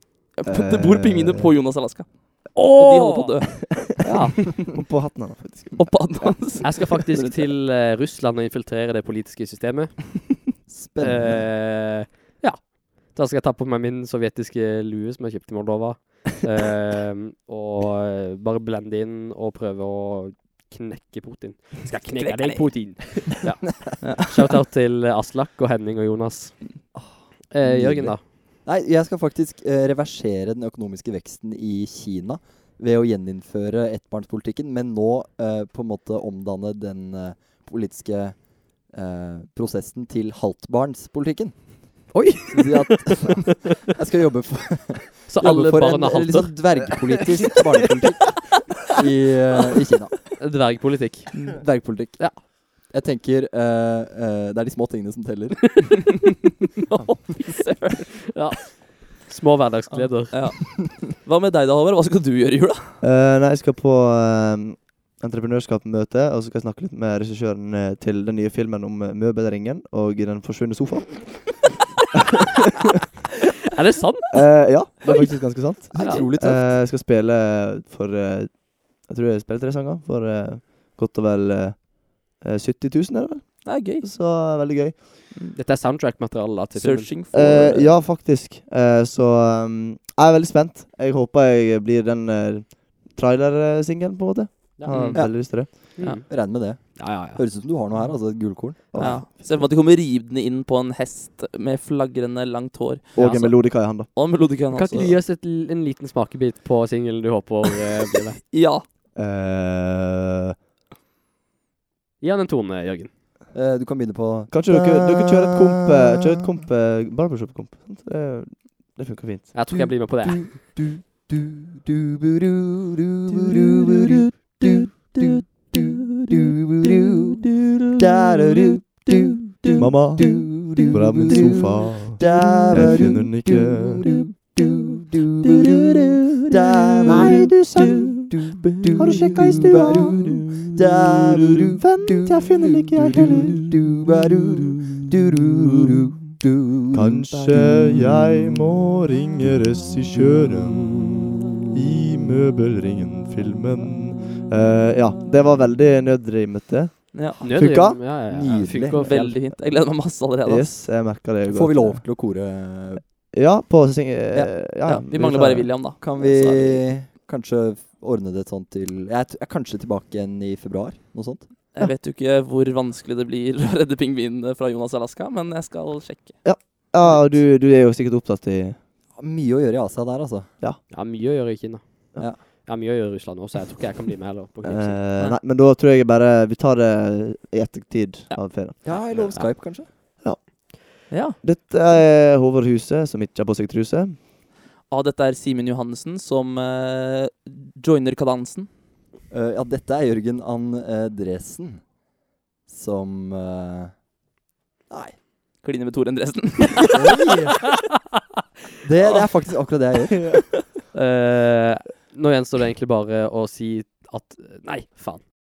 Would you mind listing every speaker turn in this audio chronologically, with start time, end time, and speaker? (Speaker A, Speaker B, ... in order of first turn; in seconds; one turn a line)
Speaker A: 0.3-4.1
Speaker B: 0.5-1.5
Speaker C: 2.5-4.3
Speaker B: 4.4-6.3
Speaker A: 5.8-7.5
Speaker C: 6.6-10.2
Speaker D: 10.7-11.5
Speaker C: 11.0-26.8
Speaker A: 22.1-23.0
Speaker A: 24.0-24.6
Speaker C: 27.5-28.2
Speaker D: 27.6-50.2
Speaker C: 42.1-43.5
Speaker C: 45.3-46.9
Speaker C: 50.4-52.4
Speaker D: 51.5-55.9
Speaker A: 56.8-58.3
Speaker C: 58.3-60.6
Speaker A: 60.3-63.0
Speaker B: 63.0-71.7
Speaker C: 73.7-75.3
Speaker B: 74.3-85.0
Speaker D: 75.9-76.8
Speaker A: 76.0-76.2
Speaker C: 76.0-76.3
Speaker A: 83.7-84.1
Speaker C: 85.5-87.1
Speaker A: 86.8-88.0
Speaker B: 87.3-95.7
Speaker C: 94.8-97.4
Speaker A: 94.9-95.2
Speaker D: 95.1-99.2
Speaker B: 98.9-99.7
Speaker A: 99.0-105.2
Speaker B: 103.1-104.1
Speaker C: 103.2-103.6
Speaker C: 104.7-108.4
Speaker A: 108.5-108.8
Speaker B: 109.2-110.5
Speaker C: 112.2-113.1
Speaker D: 113.5-116.2
Speaker B: 114.5-119.5
Speaker C: 119.5-120.5
Speaker D: 119.7-147.8
Speaker B: 129.8-134.1
Speaker B: 135.5-136.3
Speaker B: 137.1-138.3
Speaker B: 139.0-143.8
Speaker B: 146.9-151.0
Speaker B: 151.7-158.0
Speaker A: 157.1-157.5
Speaker C: 157.4-159.4
Speaker D: 158.3-159.1
Speaker A: 159.0-160.8
Speaker B: 160.4-162.1
Speaker D: 161.4-163.1
Speaker B: 163.3-166.0
Speaker A: 164.8-166.8
Speaker D: 166.0-171.5
Speaker A: 171.7-176.4
Speaker B: 176.4-178.8
Speaker D: 179.2-180.5
Speaker C: 180.9-185.0
Speaker B: 184.6-188.9
Speaker D: 188.8-189.9
Speaker C: 189.2-189.5
Speaker B: 190.2-194.2
Speaker A: 191.1-191.4
Speaker A: 194.9-198.7
Speaker D: 199.3-201.9
Speaker D: 202.7-203.9
Speaker D: 204.9-205.2
Speaker A: 205.6-207.0
Speaker D: 206.9-207.6
Speaker D: 208.8-210.2
Speaker B: 210.1-210.4
Speaker C: 210.9-215.2